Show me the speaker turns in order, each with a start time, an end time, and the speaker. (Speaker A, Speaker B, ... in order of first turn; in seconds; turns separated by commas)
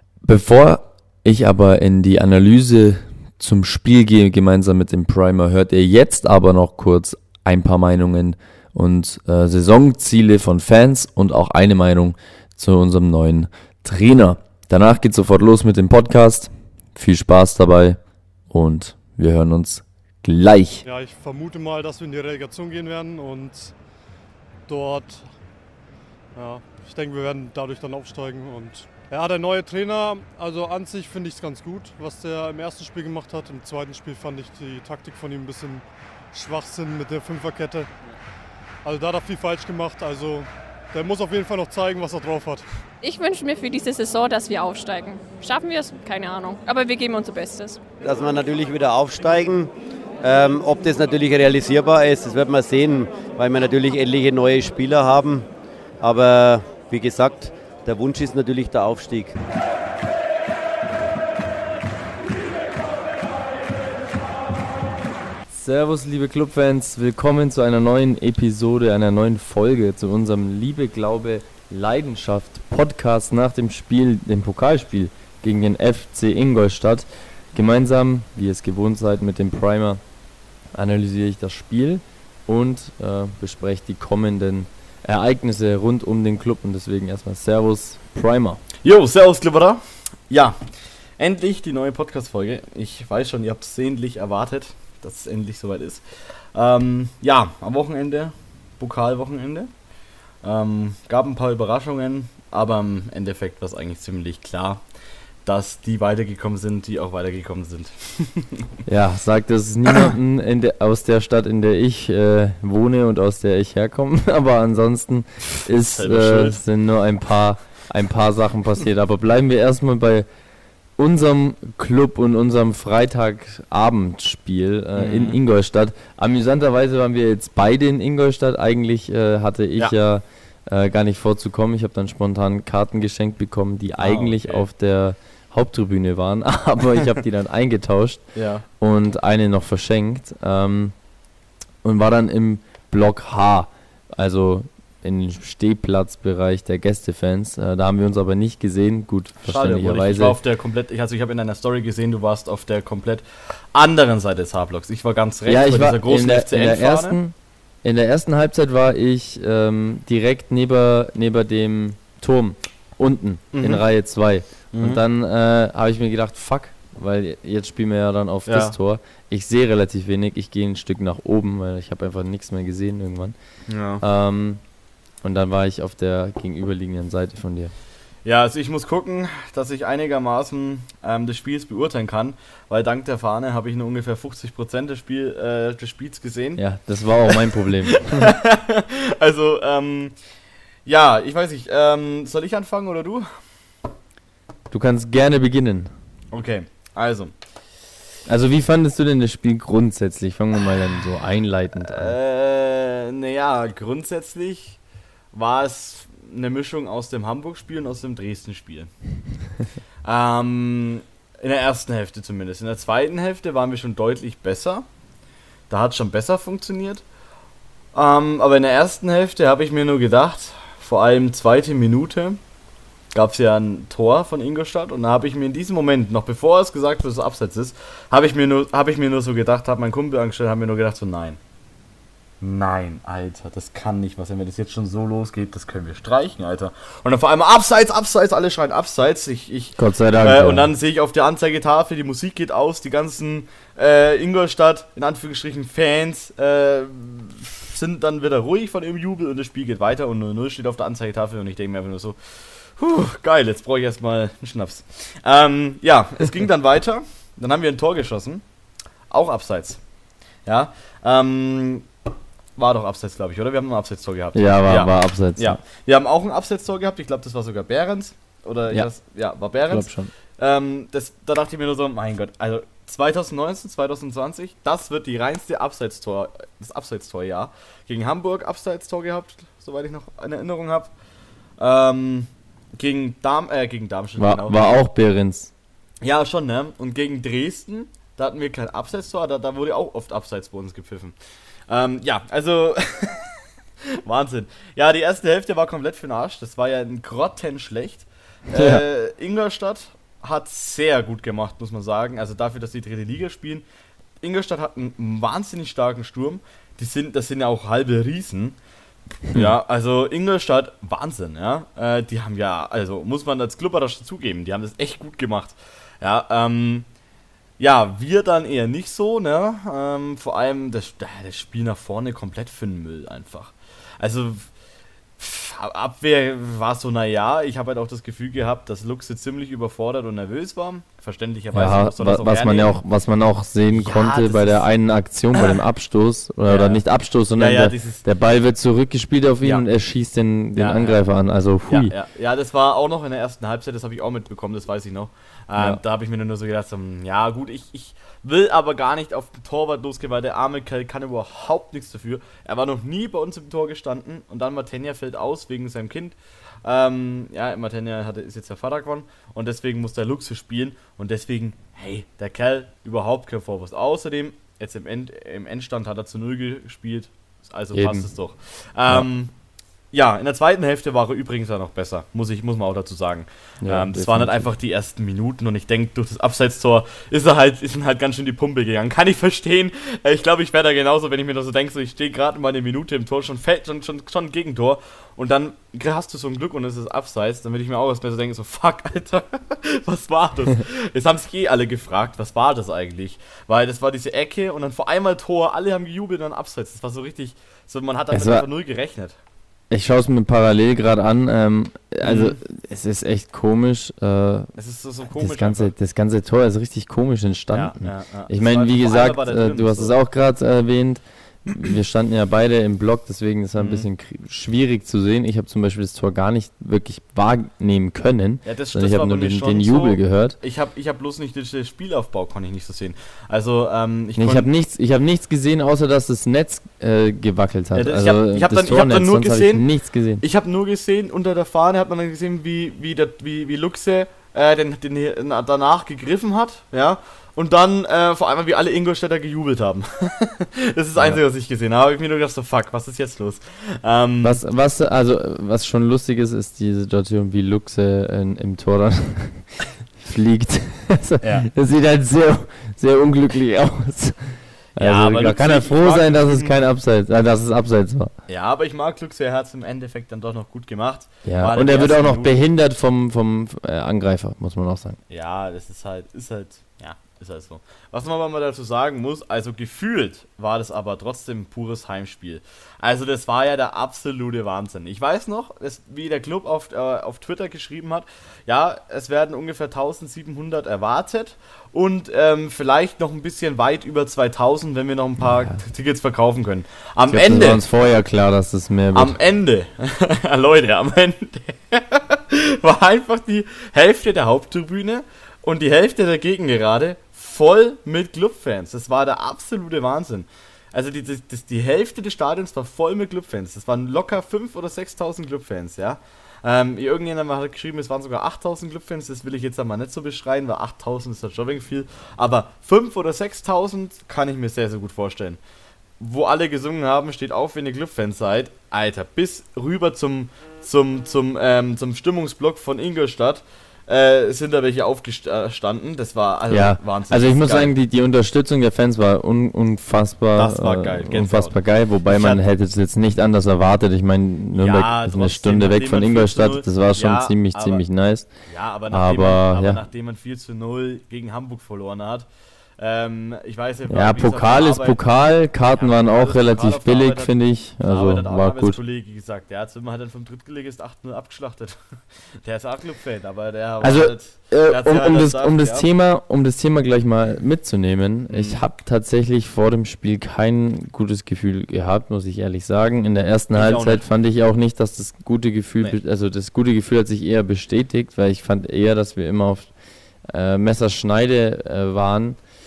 Speaker A: 0.2-18.0, Speaker A: 18.5-20.9, Speaker B: 20.9-23.7, Speaker B: 24.7-25.3, Speaker B: 26.4-37.9, Speaker B: 38.8-42.6, Speaker C: 43.0-47.8, Speaker D: 48.0-59.4, Speaker A: 65.5-80.0, Speaker A: 80.7-88.6, Speaker E: 88.8-90.6, Speaker E: 91.2-99.7, Speaker E: 100.4-104.8, Speaker E: 105.5-108.7, Speaker A: 108.9-120.3, Speaker E: 115.7-116.6, Speaker A: 121.0-138.2, Speaker E: 125.0-125.4, Speaker E: 134.0-134.7, Speaker E: 138.3-138.7, Speaker A: 138.8-140.9, Speaker A: 141.8-150.4, Speaker E: 149.4-157.2, Speaker A: 155.5-173.3, Speaker E: 163.5-163.9, Speaker E: 164.7-165.0, Speaker E: 168.5-168.8, Speaker E: 173.7-174.0, Speaker A: 174.0-174.6, Speaker A: 175.2-177.7, Speaker E: 178.2-186.6, Speaker A: 186.6-188.3, Speaker E: 187.3-190.2, Speaker E: 190.8-193.4, Speaker A: 194.7-195.9, Speaker E: 196.3-197.3, Speaker A: 198.3-202.2, Speaker E: 201.8-204.8, Speaker E: 205.3-208.9, Speaker E: 210.0-214.9, Speaker E: 215.7-217.0, Speaker E: 217.9-222.4, Speaker E: 223.1-231.4, Speaker E: 232.4-258.4, Speaker A: 239.8-240.7, Speaker E: 259.1-259.8, Speaker E: 260.5-261.9, Speaker E: 262.6-280.9, Speaker A: 264.4-265.6, Speaker A: 269.7-270.1, Speaker E: 281.6-284.8, Speaker A: 284.2-285.5, Speaker E: 286.0-291.1, Speaker E: 291.7-293.4, Speaker E: 293.9-303.6, Speaker A: 298.5-298.8, Speaker E: 304.2-308.6, Speaker E: 309.3-316.9, Speaker E: 317.6-324.5, Speaker E: 325.2-332.8, Speaker A: 331.5-341.9, Speaker E: 333.7-334.7, Speaker E: 335.3-335.6, Speaker E: 336.5-336.8, Speaker E: 337.4-338.1, Speaker E: 340.6-341.0, Speaker E: 341.7-369.3, Speaker A: 367.7-368.1, Speaker E: 369.9-399.2, Speaker A: 373.6-374.5, Speaker A: 398.1-398.5, Speaker A: 399.7-404.5, Speaker E: 402.0-402.4, Speaker E: 404.6-405.7, Speaker A: 405.2-420.4, Speaker E: 407.5-410.0, Speaker E: 413.6-413.9, Speaker E: 418.4-424.5, Speaker A: 424.2-430.2, Speaker E: 427.8-429.7, Speaker E: 430.2-444.4, Speaker A: 444.2-458.1, Speaker E: 451.2-451.5, Speaker E: 454.8-456.6, Speaker E: 458.3-462.4, Speaker A: 461.2-465.0, Speaker E: 465.1-487.6, Speaker A: 485.2-485.6, Speaker A: 487.1-489.1, Speaker E: 488.9-515.4, Speaker E: 516.0-527.7, Speaker A: 526.5-538.3, Speaker E: 530.4-532.4, Speaker E: 534.6-537.8, Speaker E: 538.5-542.3, Speaker A: 538.9-539.8, Speaker E: 542.8-545.0, Speaker A: 543.9-548.8, Speaker E: 545.7-551.8, Speaker E: 552.3-555.9, Speaker A: 553.8-569.7, Speaker E: 558.3-558.6, Speaker E: 563.5-564.0, Speaker A: 570.3-572.4